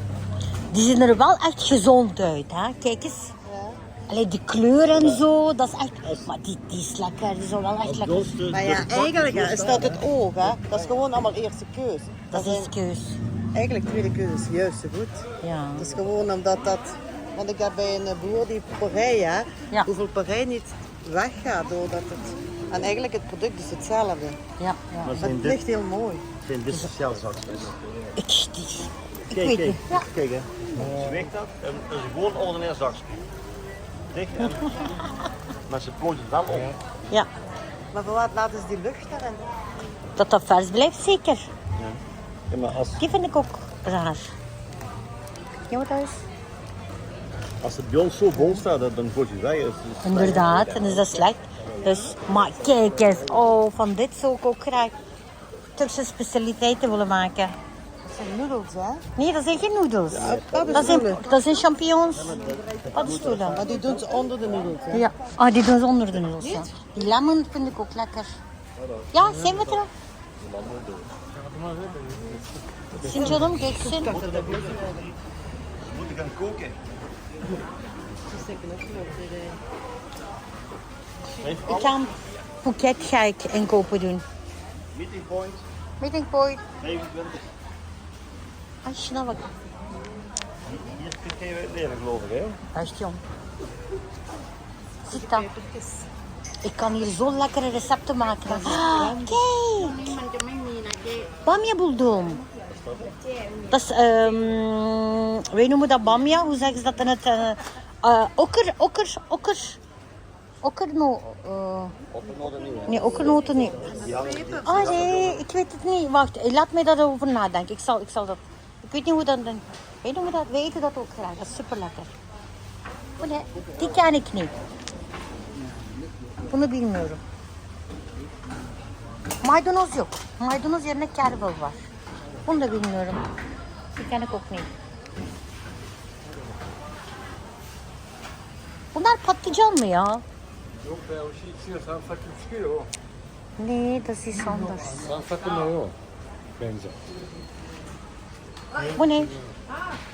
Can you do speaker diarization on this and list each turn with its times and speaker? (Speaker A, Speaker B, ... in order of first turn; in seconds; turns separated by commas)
Speaker A: 0.7-3.3, Speaker B: 3.5-3.8, Speaker A: 4.1-8.3, Speaker C: 7.8-10.0, Speaker B: 8.5-12.7, Speaker A: 12.3-13.2, Speaker B: 13.5-15.2, Speaker A: 15.4-15.9, Speaker B: 15.8-24.4, Speaker A: 24.6-25.3, Speaker C: 25.0-25.6, Speaker B: 25.2-26.3, Speaker C: 26.4-27.8, Speaker A: 28.2-30.0, Speaker C: 29.3-33.2, Speaker D: 30.7-31.3, Speaker C: 34.1-35.0, Speaker C: 35.7-36.7, Speaker D: 36.5-36.8, Speaker B: 37.9-39.5, Speaker A: 40.2-41.5, Speaker C: 42.5-43.0, Speaker A: 43.0-44.3, Speaker A: 45.7-46.2, Speaker C: 47.6-50.9, Speaker A: 50.0-55.0, Speaker A: 55.8-57.5, Speaker B: 58.0-59.1, Speaker A: 59.2-63.6, Speaker B: 60.1-61.2, Speaker C: 60.3-61.0, Speaker C: 62.4-63.7, Speaker B: 63.5-65.1, Speaker A: 64.9-68.4, Speaker B: 66.4-66.7, Speaker A: 69.1-69.9, Speaker D: 69.2-69.5, Speaker C: 70.4-71.1, Speaker D: 71.3-73.8, Speaker A: 73.0-74.1, Speaker B: 73.7-74.9, Speaker C: 74.0-75.2, Speaker C: 75.9-76.8, Speaker B: 78.3-79.6, Speaker C: 81.4-82.0, Speaker A: 81.6-84.2, Speaker C: 84.9-85.6, Speaker A: 86.0-86.6, Speaker C: 86.8-87.4, Speaker A: 88.8-89.5, Speaker C: 90.7-92.6, Speaker A: 92.7-93.2, Speaker A: 95.0-95.5, Speaker B: 95.1-96.1, Speaker A: 96.6-100.2, Speaker B: 98.5-99.4, Speaker B: 100.1-101.2, Speaker A: 101.4-102.4, Speaker C: 102.7-103.2, Speaker A: 103.7-109.8, Speaker A: 110.6-112.0, Speaker C: 112.1-115.3, Speaker A: 112.9-113.9, Speaker B: 113.9-114.7, Speaker A: 114.6-122.1, Speaker A: 123.2-124.5, Speaker A: 126.5-127.2, Speaker A: 129.4-131.8, Speaker A: 132.5-133.2, Speaker A: 133.9-134.7, Speaker A: 138.9-140.2, Speaker D: 140.8-142.9, Speaker A: 143.6-145.1, Speaker D: 144.8-146.0, Speaker D: 146.6-147.0, Speaker D: 148.8-149.6, Speaker A: 148.8-149.4